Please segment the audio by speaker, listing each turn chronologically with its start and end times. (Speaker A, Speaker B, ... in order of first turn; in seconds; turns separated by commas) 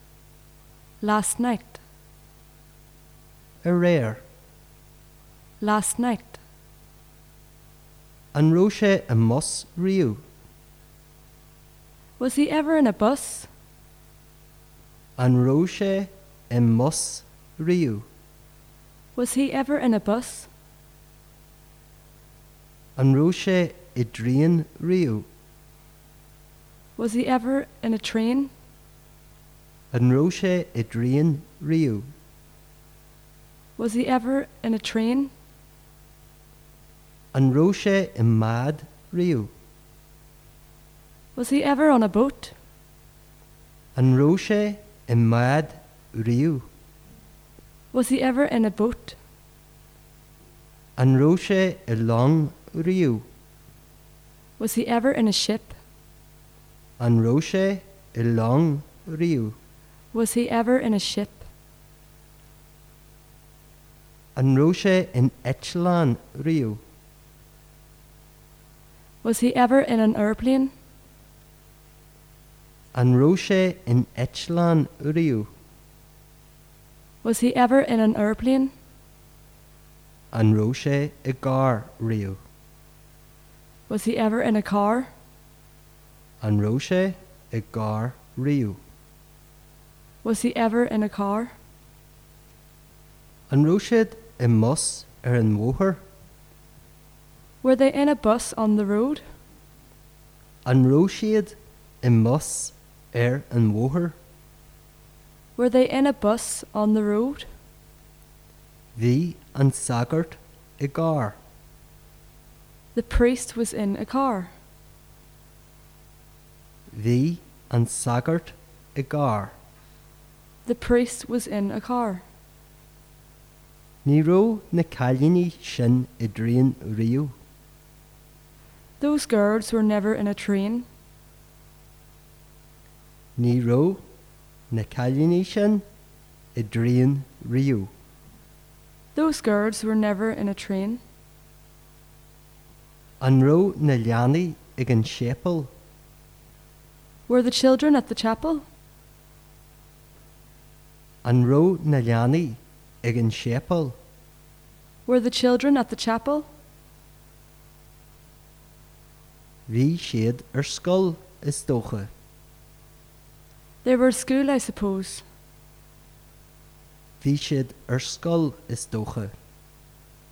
Speaker A: 1.0-1.8, Speaker B: 3.6-4.2, Speaker A: 5.6-6.4, Speaker B: 8.3-10.2, Speaker A: 12.2-13.5, Speaker B: 15.2-18.1, Speaker A: 19.1-20.5, Speaker B: 22.9-25.2, Speaker A: 27.0-28.5, Speaker B: 29.9-32.1, Speaker A: 33.8-35.3, Speaker B: 37.3-39.5, Speaker A: 41.4-42.5, Speaker B: 43.9-46.7, Speaker A: 47.9-49.2, Speaker B: 51.0-53.2, Speaker A: 54.6-55.8, Speaker B: 57.0-59.5, Speaker A: 60.1-61.5, Speaker B: 64.3-66.8, Speaker A: 69.2-70.7, Speaker B: 72.9-75.5, Speaker A: 77.2-78.7, Speaker B: 80.3-82.4, Speaker A: 83.9-85.1, Speaker B: 86.4-88.8, Speaker A: 90.2-91.5, Speaker B: 93.5-96.0, Speaker A: 97.6-99.2, Speaker B: 100.6-104.2, Speaker A: 105.5-107.5, Speaker B: 108.9-111.4, Speaker A: 112.9-114.5, Speaker B: 116.9-119.5, Speaker A: 120.7-122.2, Speaker B: 124.0-127.3, Speaker A: 129.0-130.8, Speaker B: 133.4-134.0, Speaker B: 134.7-135.8, Speaker B: 136.5-137.9, Speaker A: 139.1-141.0, Speaker B: 143.2-145.7, Speaker A: 147.3-148.6, Speaker B: 151.2-154.0, Speaker A: 155.1-156.5, Speaker B: 159.7-162.1, Speaker A: 163.8-165.2, Speaker B: 167.2-169.3